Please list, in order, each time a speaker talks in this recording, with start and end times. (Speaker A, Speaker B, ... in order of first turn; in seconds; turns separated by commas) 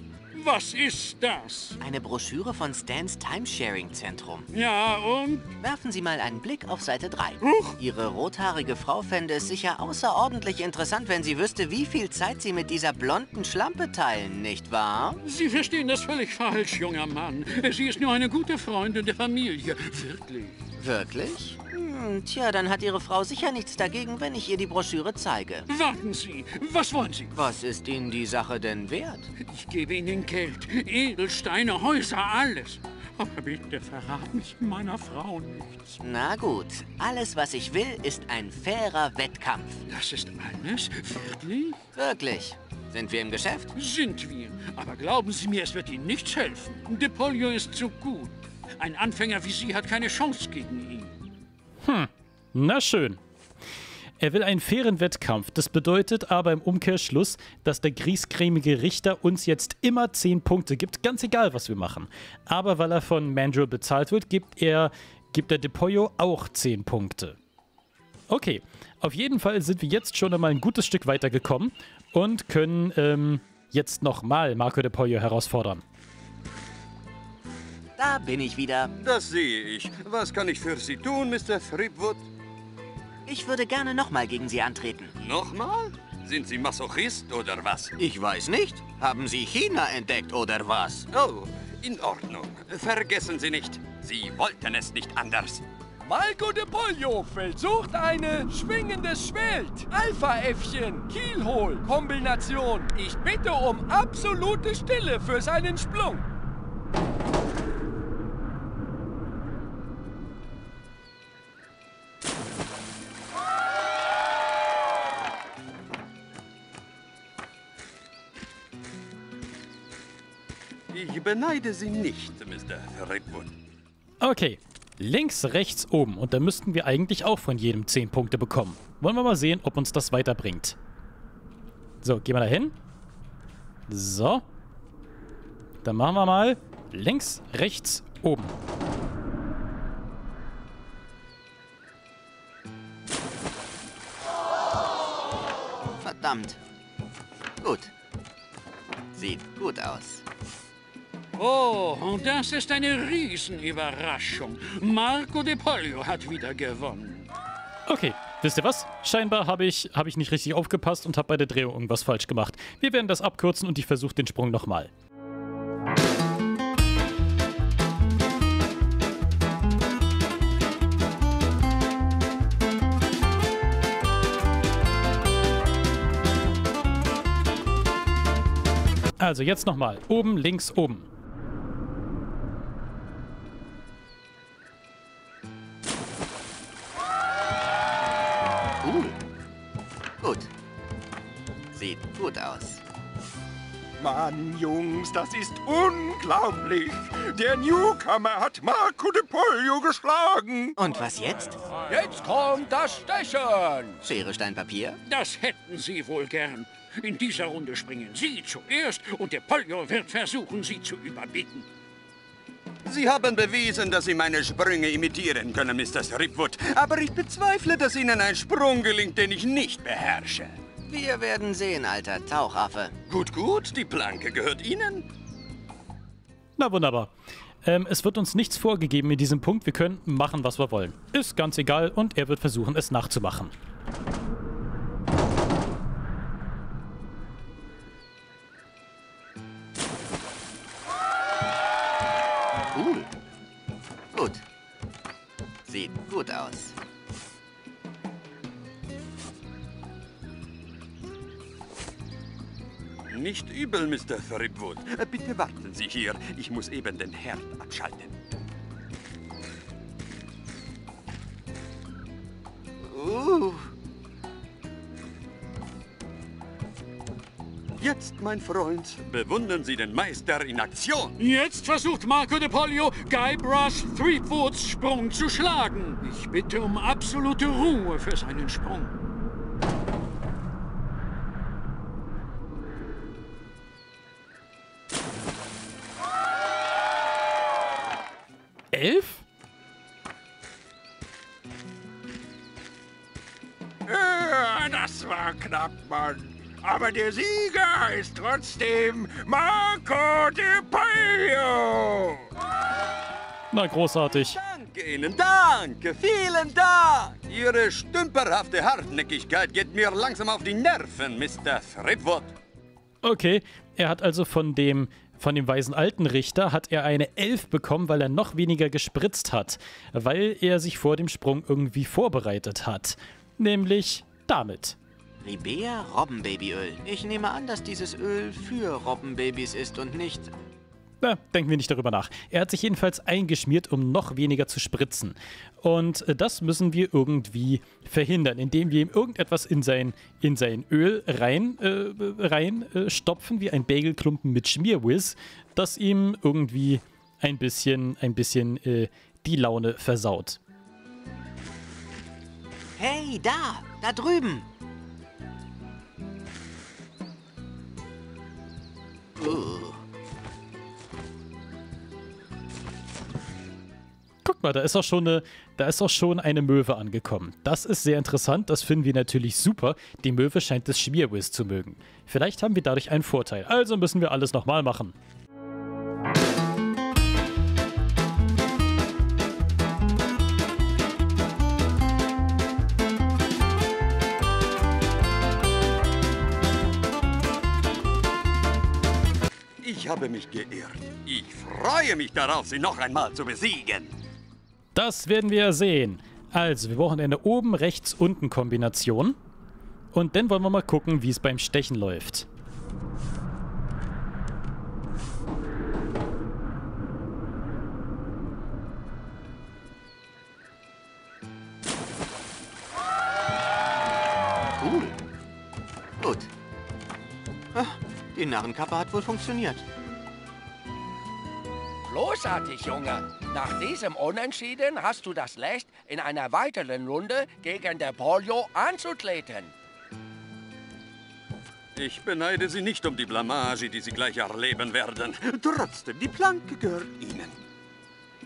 Speaker A: 0.3-1.8, Speaker B: 1.8-4.5, Speaker A: 4.5-5.5, Speaker B: 5.6-15.2, Speaker A: 7.4-7.8, Speaker A: 15.2-20.6, Speaker B: 20.8-25.7, Speaker A: 25.7-27.3, Speaker B: 27.3-29.3, Speaker A: 29.4-36.0, Speaker B: 36.0-39.8, Speaker A: 39.9-41.8, Speaker B: 41.9-43.7, Speaker A: 43.7-51.3, Speaker C: 51.8-53.2, Speaker C: 54.2-67.4, Speaker C: 68.3-75.8, Speaker B: 78.0-78.9, Speaker D: 79.0-82.2, Speaker B: 83.2-85.2, Speaker D: 85.2-87.9, Speaker B: 88.0-91.0, Speaker D: 91.1-95.6, Speaker E: 96.0-106.2, Speaker D: 120.9-123.5, Speaker C: 124.2-130.8, Speaker C: 132.0-132.7, Speaker C: 133.9-134.4, Speaker C: 135.8-138.5, Speaker B: 146.0-146.6, Speaker B: 147.6-147.9, Speaker B: 149.1-150.2, Speaker A: 151.3-157.3, Speaker C: 157.9-164.9, Speaker C: 179.2-181.1, Speaker B: 188.8-189.2, Speaker B: 190.2-190.5, Speaker B: 191.7-192.8, Speaker F: 194.0-200.8, Speaker B: 200.8-201.6, Speaker E: 201.9-204.0, Speaker B: 204.0-205.0, Speaker A: 205.1-211.7, Speaker D: 212.8-220.6, Speaker B: 220.8-222.9, Speaker D: 223.1-225.1, Speaker C: 226.6-227.1, Speaker C: 227.6-233.5, Speaker B: 242.7-243.1, Speaker B: 244.1-244.4, Speaker B: 245.6-246.8, Speaker D: 253.1-258.1, Speaker B: 262.8-263.7, Speaker D: 267.8-271.1, Speaker A: 271.2-278.9, Speaker C: 288.7-289.2, Speaker F: 293.9-302.2, Speaker C: 303.5-304.4, Speaker D: 304.3-312.3, Speaker C: 313.0-324.8, Speaker B: 325.2-330.3, Speaker C: 331.0-350.4, Speaker B: 352.8-354.5, Speaker B: 359.1-359.8, Speaker C: 364.2-374.9, Speaker D: 389.6-393.9, Speaker C: 394.7-399.2, Speaker C: 399.9-402.2, Speaker B: 414.6-414.9, Speaker B: 416.0-416.3, Speaker B: 417.5-419.6, Speaker E: 421.9-429.5, Speaker D: 431.7-437.4